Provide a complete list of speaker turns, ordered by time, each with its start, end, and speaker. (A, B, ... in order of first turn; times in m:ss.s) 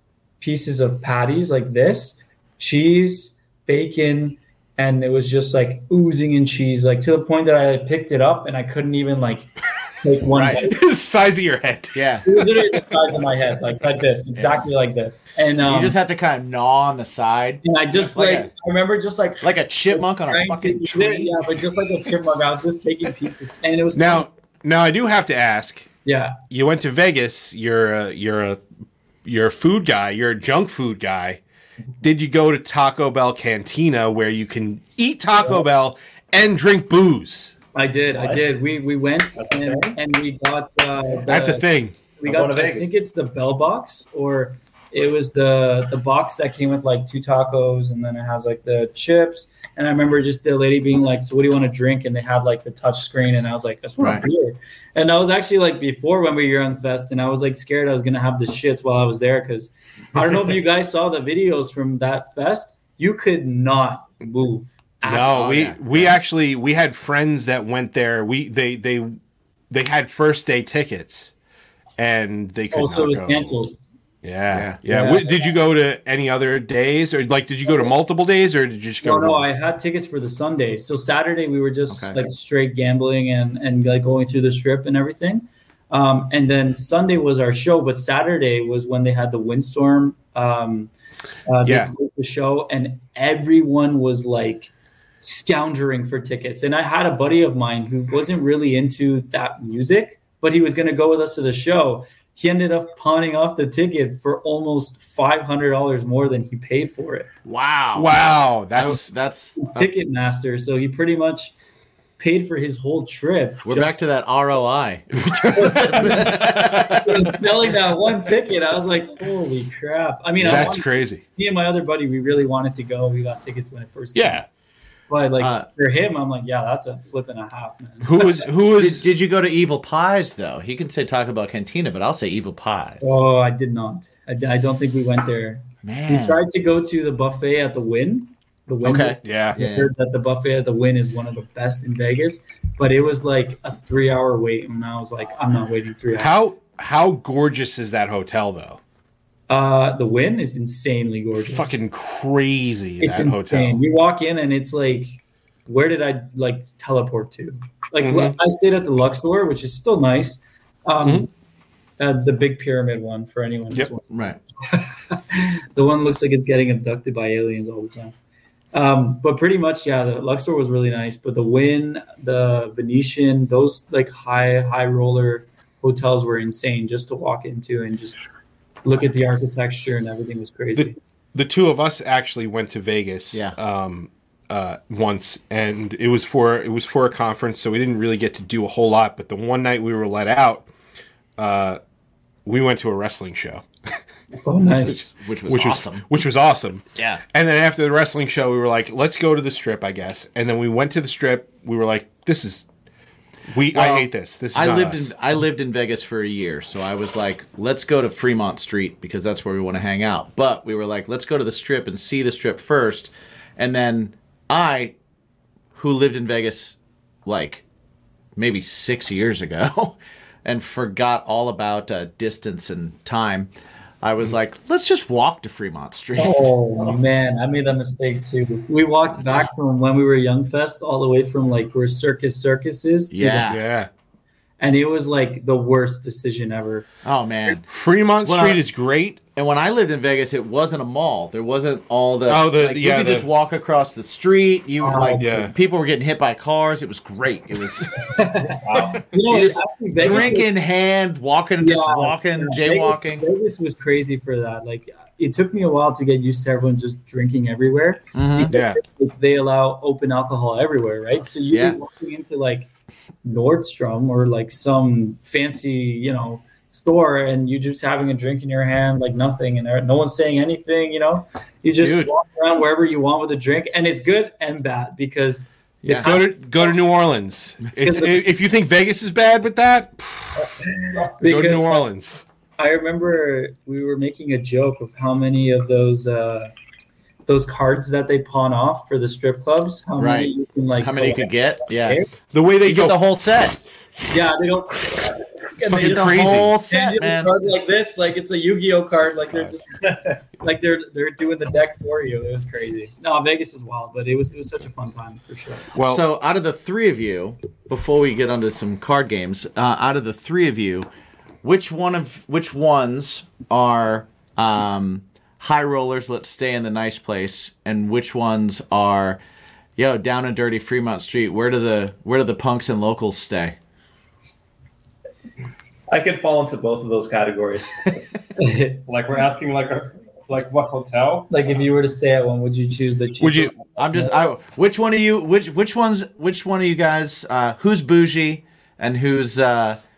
0:00.4-0:09.5 A
0:10.0-0:10.8 A
0:10.3-0:10.6 B
0:10.6-0:12.4 C
0:11.9-0:12.2 B
0:12.2-0:16.0 A
0:15.6-0:18.5 B
0:17.6-0:24.3 A
0:19.4-0:21.4 B
0:23.9-0:25.9 C
0:26.0-0:26.4 A
0:26.5-0:28.6 C
0:29.2-0:31.4 C
0:32.0-0:37.5 C
0:37.7-1:05.4 A
0:38.1-0:38.5 D
0:39.4-0:40.0 D
0:41.2-0:42.0 C
0:42.2-0:42.9 D
1:05.0-1:09.2 C
1:05.2-1:06.2 B
1:09.7-1:11.3 C
1:12.0-1:13.5 C
1:12.7-1:13.8 A
1:14.2-1:19.4 C
1:14.5-1:14.8 B
1:14.9-1:15.4 A
1:19.0-1:30.9 A
1:21.9-1:22.2 B
1:31.4-1:47.3 A
1:31.6-1:31.9 C
1:47.4-1:48.2 B
1:47.9-1:49.1 C
1:48.7-1:49.9 B
1:49.6-1:51.5 A
1:52.2-1:54.0 A
1:53.6-1:57.4 B
1:55.5-2:04.4 A
1:56.3-1:57.0 C
2:00.4-2:01.2 C
2:04.1-2:04.5 C
2:05.1-2:08.4 A
2:05.4-2:05.7 B
2:08.0-2:09.0 C
2:08.8-2:13.2 B
2:13.0-2:26.3 A
2:15.8-2:16.4 B
2:18.8-2:19.9 B
2:19.2-2:19.6 C
2:26.1-2:28.8 C
2:29.5-2:31.7 A
2:31.3-2:33.8 C
2:33.0-2:41.3 A
2:38.0-2:38.4 C
2:41.0-2:41.3 C
2:42.0-2:44.1 A
2:44.1-2:44.4 B
2:44.6-2:48.1 A
2:48.7-2:58.2 A
2:58.8-3:01.0 A
3:00.8-3:10.7 C
3:11.4-3:11.8 C
3:12.4-3:13.6 C
3:14.4-3:15.1 A
3:14.7-3:16.0 B
3:15.5-3:22.7 C
3:17.0-3:17.2 B
3:23.5-3:25.1 C
3:23.7-3:34.9 B
3:35.7-3:36.7 B
3:37.2-3:37.6 B
3:38.4-3:43.5 B
3:44.0-3:46.6 B
3:46.2-3:53.5 A
3:53.1-3:53.6 B
3:53.5-3:53.9 C
3:54.6-3:56.8 A
3:57.0-3:57.6 B
3:57.6-3:59.2 C
3:58.2-3:58.6 B
3:59.3-4:08.1 B
4:02.3-4:03.3 C
4:04.8-4:05.5 A
4:05.2-4:05.5 C
4:08.1-4:10.5 A
4:08.6-4:09.0 D
4:08.7-4:13.2 B
4:11.6-4:22.7 A
4:18.1-4:18.5 B
4:18.5-4:18.8 C
4:21.5-4:21.8 B
4:23.2-4:36.8 A
4:31.8-4:32.1 B
4:35.8-4:36.1 B
4:35.9-4:40.5 C
4:37.8-4:38.2 A
4:41.0-4:41.9 A
4:41.2-4:42.2 C
4:42.6-4:46.5 A
4:47.3-4:52.1 A
4:50.0-4:52.0 B
4:52.3-4:53.0 C
4:52.6-4:53.6 B
4:54.1-5:05.7 A
4:55.6-4:56.6 C
4:55.7-4:57.3 B
5:05.7-5:06.0 C
5:05.8-5:10.9 B
5:11.4-5:19.2 B
5:19.8-5:23.6 B
5:25.9-5:27.9 D
5:28.4-5:28.8 A
5:28.9-5:31.3 E
5:31.3-5:34.1 A
5:33.2-5:33.5 C
5:33.8-5:39.8 B